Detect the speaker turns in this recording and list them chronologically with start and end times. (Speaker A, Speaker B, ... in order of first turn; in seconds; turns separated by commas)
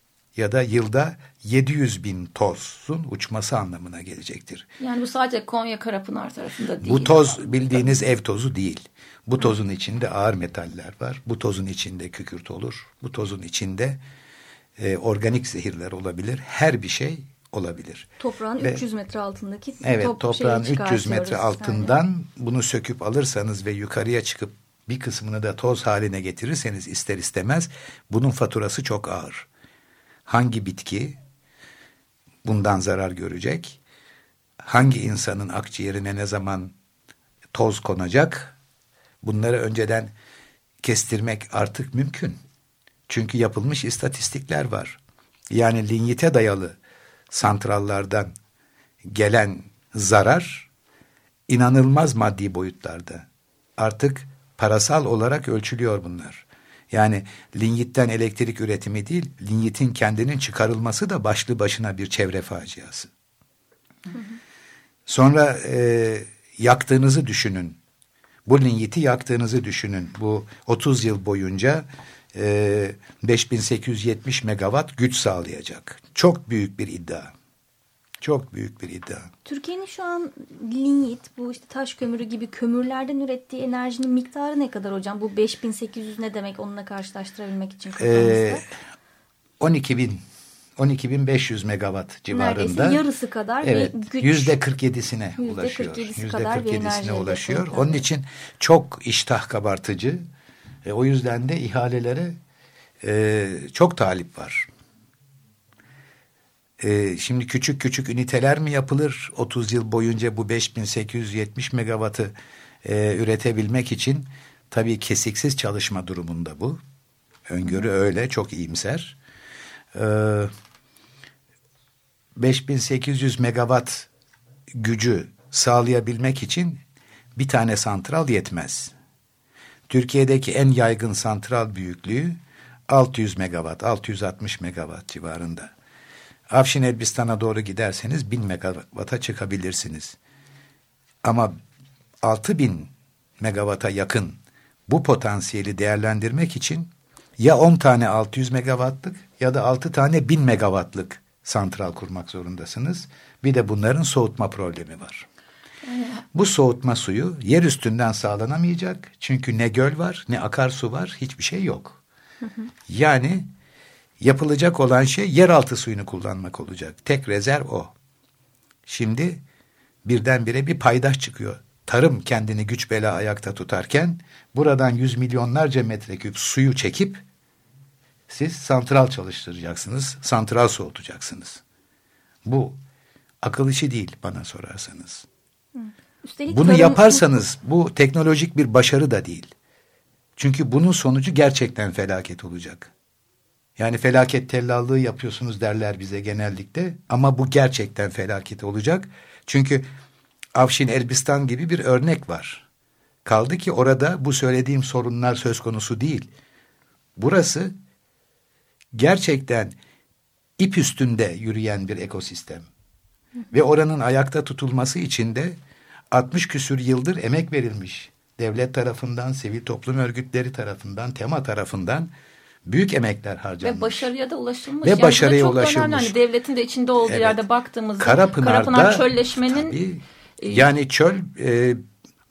Speaker A: 0.3-4.7, Speaker B: 4.8-8.0, Speaker A: 6.8-14.0, Speaker A: 14.8-18.1, Speaker C: 18.2-21.9, Speaker A: 19.8-29.5, Speaker A: 30.3-31.2, Speaker A: 32.4-33.8, Speaker A: 34.6-36.7, Speaker A: 37.5-38.6, Speaker A: 39.2-40.1, Speaker A: 40.8-42.4, Speaker A: 43.1-45.0, Speaker A: 45.5-46.8, Speaker A: 47.3-48.3, Speaker A: 49.0-50.7, Speaker A: 51.5-53.3, Speaker A: 53.8-63.1, Speaker A: 65.1-67.8, Speaker A: 68.5-77.3, Speaker A: 78.2-79.3, Speaker C: 79.5-88.7, Speaker A: 88.0-88.7, Speaker A: 89.6-90.2, Speaker A: 90.8-93.0, Speaker C: 92.3-94.6, Speaker A: 93.6-100.2, Speaker C: 95.4-98.0, Speaker A: 100.8-102.4, Speaker A: 103.0-104.7, Speaker A: 106.8-116.8, Speaker A: 117.5-119.2, Speaker A: 119.9-120.5, Speaker A: 122.4-124.1, Speaker A: 124.7-126.8, Speaker A: 127.3-128.9, Speaker A: 129.9-135.7, Speaker A: 136.5-140.2, Speaker A: 141.2-141.6, Speaker A: 142.2-155.3, Speaker B: 155.9-156.2, Speaker A: 156.3-162.0, Speaker A: 162.9-163.5, Speaker A: 164.2-167.9, Speaker A: 168.9-169.4, Speaker A: 170.1-177.2, Speaker A: 178.3-181.6, Speaker A: 182.4-182.8, Speaker A: 183.4-185.3, Speaker C: 185.8-187.2, Speaker A: 186.5-189.5, Speaker A: 190.4-192.9, Speaker A: 193.8-199.9, Speaker A: 200.6-202.7, Speaker A: 203.2-206.3, Speaker A: 207.2-207.7, Speaker A: 208.9-209.8, Speaker A: 210.6-212.7, Speaker A: 213.5-215.6, Speaker A: 216.1-222.1, Speaker A: 222.7-224.1, Speaker B: 223.6-229.8, Speaker A: 224.8-226.2, Speaker A: 227.1-227.4, Speaker A: 228.0-231.8, Speaker B: 230.4-230.7